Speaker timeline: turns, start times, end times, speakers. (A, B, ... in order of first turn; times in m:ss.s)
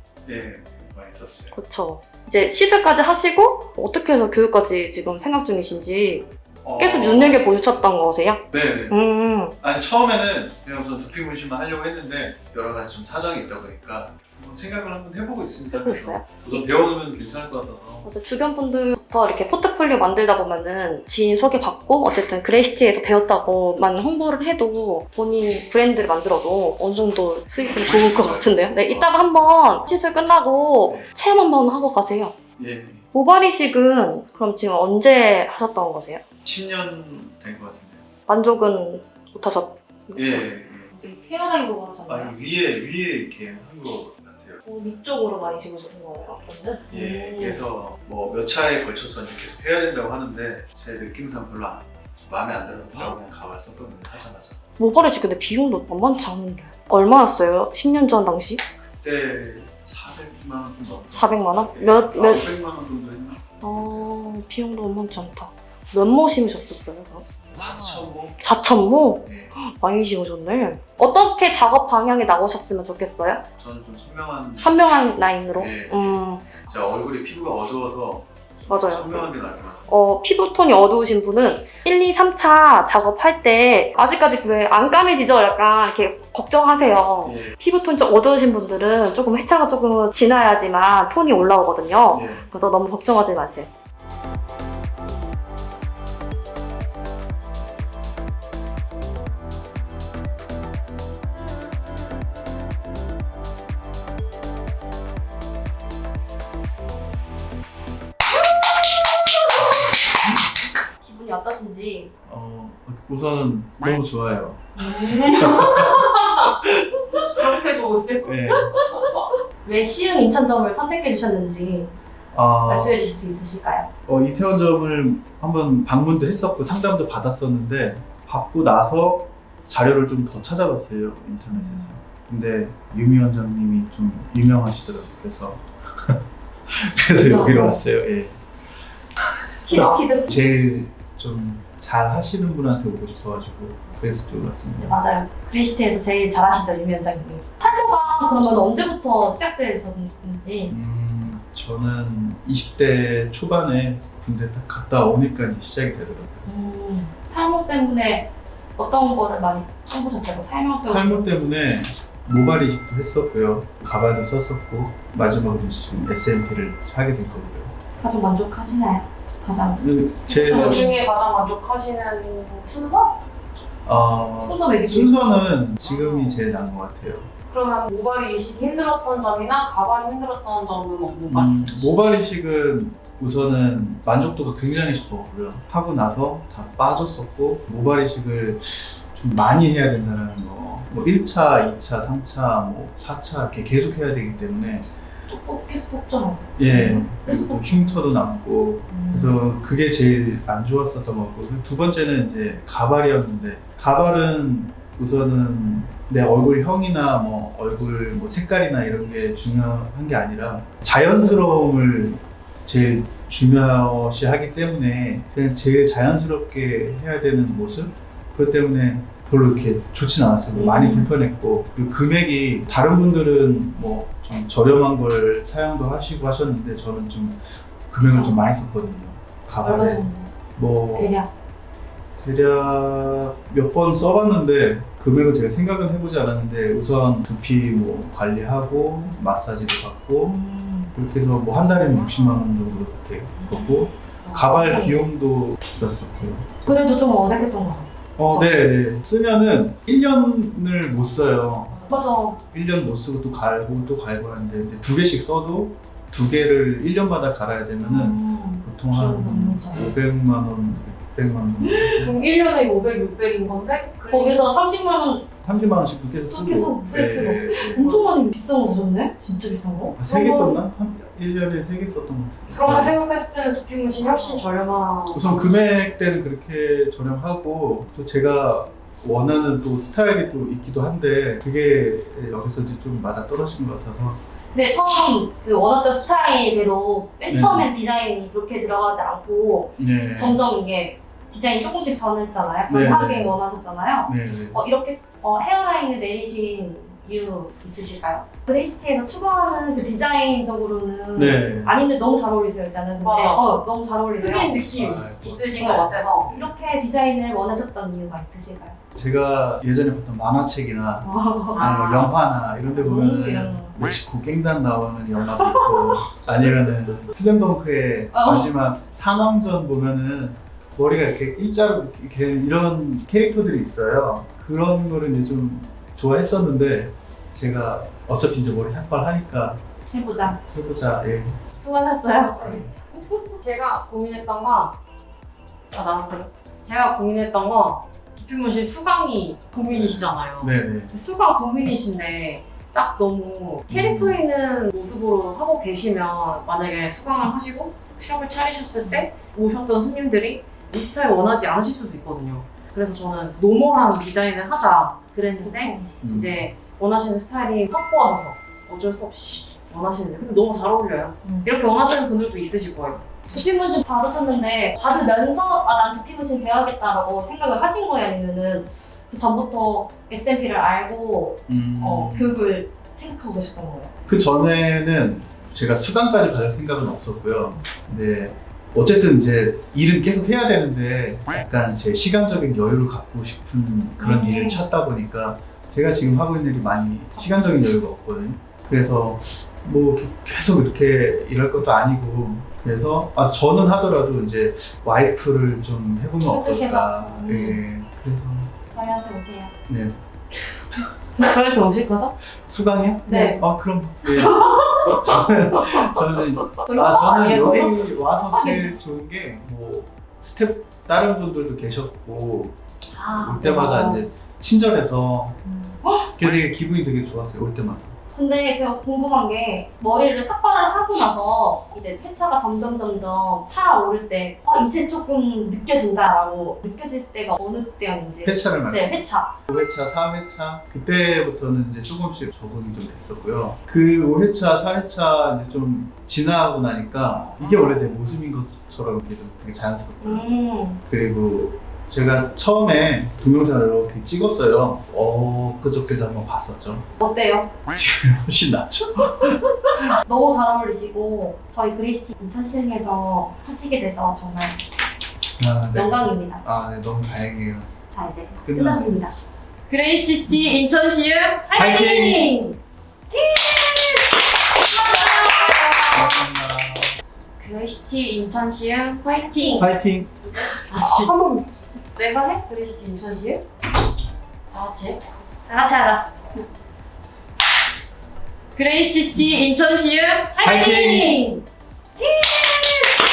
0:00.3-0:01.6 A
0:01.5-0:09.6 B
0:06.6-0:07.6 A
0:08.5-0:09.0 A
0:09.6-0:18.1 A
0:15.7-0:16.7 B
0:18.0-0:32.4 B
0:27.8-0:29.1 A
0:30.9-0:31.1 A
0:32.6-0:33.1 A
0:33.1-0:36.2 B
0:36.4-0:38.1 A
0:38.3-0:42.4 B
0:40.2-0:40.9 A
0:42.1-0:44.6 A
0:44.6-0:47.6 B
0:46.9-0:54.6 A
0:54.8-0:58.6 B
0:58.8-1:04.1 A
1:01.1-1:02.5 B
1:03.6-1:07.3 B
1:07.5-1:08.5 A
1:08.4-1:13.4 B
1:09.2-1:09.5 A
1:13.6-1:14.8 A
1:14.6-1:16.6 B
1:15.6-1:19.9 A
1:18.7-1:19.2 B
1:19.9-1:33.7 B
1:27.2-1:27.6 A
1:32.1-1:32.4 A
1:49.6-1:50.1 A
1:51.0-1:52.1 B
1:52.3-1:56.1 A
1:54.8-1:56.6 C
1:57.3-1:58.4 C
1:58.2-1:58.8 A
1:58.5-2:02.0 B
2:02.3-2:03.0 A
2:02.7-2:03.9 B
2:04.1-2:18.4 A
2:11.5-2:11.9 B
2:17.1-2:17.8 B
2:19.7-2:24.9 A
2:19.7-2:20.3 B
2:24.8-2:30.7 B
2:30.7-2:36.5 A
2:36.5-2:41.2 B
2:40.9-2:47.8 A
2:48.0-2:50.9 B
2:49.8-2:50.8 A
2:50.3-2:53.2 C
2:53.8-2:57.3 A
2:54.4-2:55.2 B
2:55.9-2:56.2 C
2:57.5-3:01.9 C
3:01.3-3:14.9 A
3:15.3-3:18.0 B
3:16.6-3:51.2 A
3:18.9-3:19.6 B
3:40.5-3:41.1 B
3:48.0-3:48.4 B
3:49.6-3:50.3 B
3:50.9-3:51.3 B
3:52.2-4:00.4 A
4:00.2-4:00.9 B
4:00.9-4:06.5 A
4:03.4-4:03.7 B
4:04.3-4:05.0 B
4:06.6-4:08.5 B
4:08.2-4:11.8 A
4:11.8-4:12.4 B
4:12.5-4:22.1 A
4:17.8-4:19.9 B
4:21.6-4:22.1 B
4:22.0-4:24.5 C
4:24.1-4:25.3 B
4:25.4-4:28.0 A
4:26.3-4:30.6 B
4:29.9-4:33.0 A
4:32.5-4:35.3 C
4:34.0-4:34.5 B
4:35.1-4:44.2 A
4:44.5-5:04.6 B
4:47.3-4:47.7 A
4:49.8-4:50.4 A
4:52.7-4:53.4 A
4:54.1-4:54.6 A
5:01.2-5:01.8 A
5:03.0-5:03.4 C
5:04.2-5:06.3 C
5:04.5-5:06.6 A
5:06.3-5:08.8 B
5:09.0-5:29.6 A
5:11.0-5:11.8 B
5:11.5-5:12.1 C
5:12.6-5:13.8 B
5:15.3-5:16.1 B
5:18.1-5:18.5 B
5:29.9-5:30.4 B
5:30.5-5:31.4 A
5:31.6-5:33.2 B
5:31.8-5:32.6 C
5:33.4-5:34.8 C
5:35.7-6:03.3 C
5:39.7-5:40.9 A
5:43.7-5:44.2 A
5:55.4-5:55.9 B
5:56.0-5:56.4 A
6:01.2-6:01.5 B
6:03.3-6:13.9 B
6:11.5-6:12.4 A
6:14.1-6:38.5 A
6:24.0-6:24.6 B
6:36.2-6:37.6 B
6:38.7-6:39.5 B
6:39.7-6:40.0 A
6:41.2-6:42.1 C
6:42.5-6:52.6 A
6:43.1-6:43.4 B
6:44.0-6:46.0 B
6:46.5-6:48.7 B
6:52.9-6:54.0 B
6:53.2-6:55.4 A
6:55.5-6:56.1 B
6:56.2-6:57.9 A
6:58.1-7:09.4 B
7:08.2-7:20.2 A
7:20.0-7:20.8 B
7:20.9-7:26.9 A
7:27.0-7:27.5 B
7:27.7-7:30.0 A
7:29.9-7:34.6 B
7:35.4-7:37.7 A
7:35.7-7:36.4 B
7:37.9-7:39.1 B
7:38.4-7:39.0 A
7:39.7-7:41.7 C
7:41.5-7:42.6 B
7:41.5-7:42.4 A
7:43.1-7:44.1 B
7:44.7-7:45.9 B
7:45.0-7:46.2 C
7:45.9-7:47.0 A
7:47.4-7:49.7 C
7:49.6-7:50.2 A
7:50.5-7:53.4 C
7:50.5-7:51.1 B
7:54.5-7:55.0 C
7:55.5-7:56.1 B
7:58.6-8:01.4 C
8:00.4-8:01.4 B
8:00.4-8:01.2 A
8:02.1-8:02.6 B